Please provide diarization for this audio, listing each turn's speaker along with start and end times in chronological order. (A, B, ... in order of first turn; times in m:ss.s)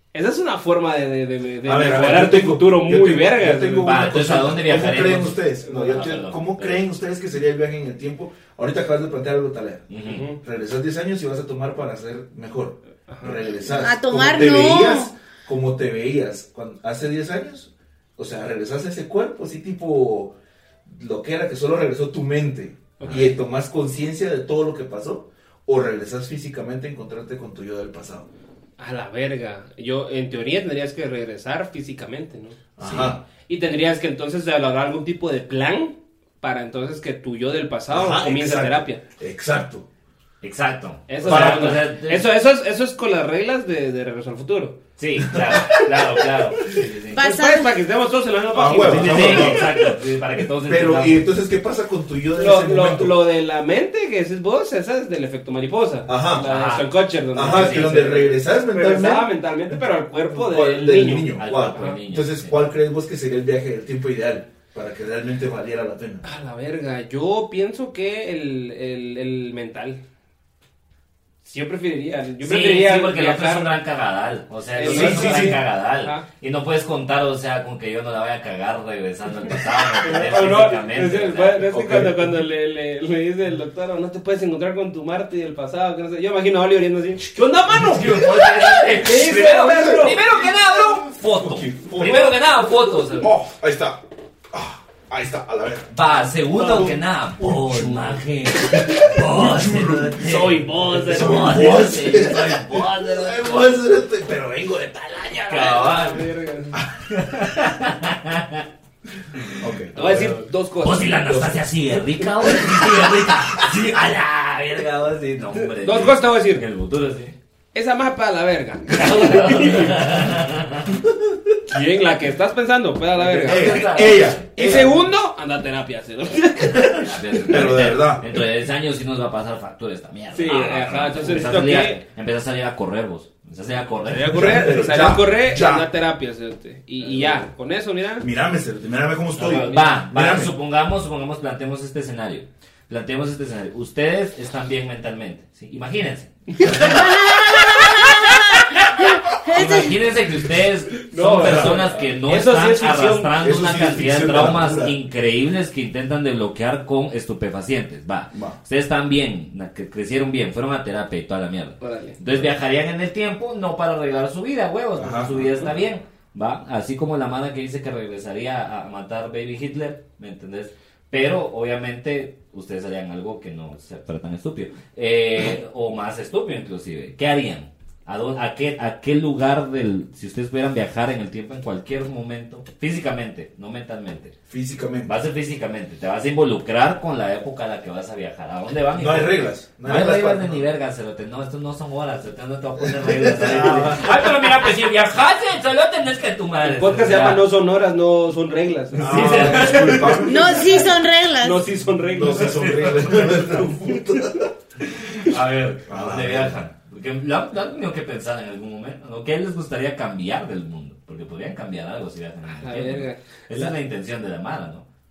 0:00.1-0:04.0 A
0:01.6-0:20.4 B
0:03.8-0:06.8 C
0:05.7-0:05.9 A
0:09.9-0:10.3 C
0:10.0-0:10.4 A
0:13.1-0:13.4 A
0:13.7-0:15.1 D
0:20.9-0:28.3 B
0:23.0-0:23.3 A
0:28.8-0:32.6 A
0:32.8-0:33.2 B
0:32.8-0:33.2 C
0:33.4-0:39.0 A
0:37.9-0:39.9 B
0:40.4-0:42.3 C
0:41.1-0:44.8 A
0:41.2-0:41.8 B
0:45.0-0:47.2 C
0:45.3-0:45.8 B
0:47.1-0:47.7 D
0:47.2-0:49.8 A
0:48.5-0:49.8 B
0:48.8-0:51.3 C
0:50.6-0:53.2 B
0:52.4-1:02.0 A
0:56.1-0:56.5 B
0:56.4-0:56.9 C
0:57.3-0:59.8 B
0:57.4-0:58.0 C
1:00.3-1:06.2 B
1:01.4-1:02.5 C
1:06.2-1:10.0 A
1:11.4-1:13.7 A
1:12.4-1:21.7 C
1:14.8-1:16.2 A
1:14.8-1:15.6 B
1:20.0-1:30.2 A
1:21.7-1:22.3 B
1:27.7-1:33.3 C
1:29.8-1:32.4 B
1:33.2-1:35.9 B
1:35.9-1:43.8 C
1:36.5-1:37.0 A
1:37.5-1:38.2 B
1:38.8-1:45.9 B
1:40.2-1:42.0 A
1:45.5-1:46.3 C
1:45.6-1:46.8 A
1:47.1-1:48.6 C
1:49.4-1:57.4 C
1:49.6-1:50.4 B
1:50.0-1:51.2 A
1:51.3-1:51.6 B
1:52.4-1:52.8 B
1:55.5-1:56.6 A
1:57.7-2:00.2 A
1:58.9-2:01.0 C
2:01.0-2:01.3 B
2:01.7-2:07.1 A
2:03.2-2:04.4 C
2:03.4-2:05.0 B
2:07.0-2:14.9 C
2:07.4-2:08.4 B
2:10.3-2:12.0 A
2:14.0-2:18.3 A
2:14.3-2:15.9 B
2:17.0-2:17.4 C
2:18.2-2:20.6 B
2:19.4-2:27.1 C
2:19.4-2:20.0 A
2:26.5-2:27.1 A
2:26.7-2:30.0 D
2:29.4-3:04.3 C
2:31.0-2:33.4 A
2:31.4-2:32.1 B
2:33.4-2:35.0 B
2:38.3-2:38.6 B
2:41.8-2:42.2 A
2:45.0-2:45.6 B
3:04.5-3:05.1 B
3:05.1-3:17.4 C
3:09.0-3:10.6 B
3:12.8-3:14.1 B
3:16.6-3:20.8 A
3:19.0-3:20.9 B
3:19.0-3:20.2 C
3:20.2-3:21.6 D
3:21.4-3:24.2 A
3:22.1-3:24.5 B
3:22.4-3:23.5 C
3:25.0-3:34.8 C
3:25.9-3:26.7 B
3:32.5-3:33.7 A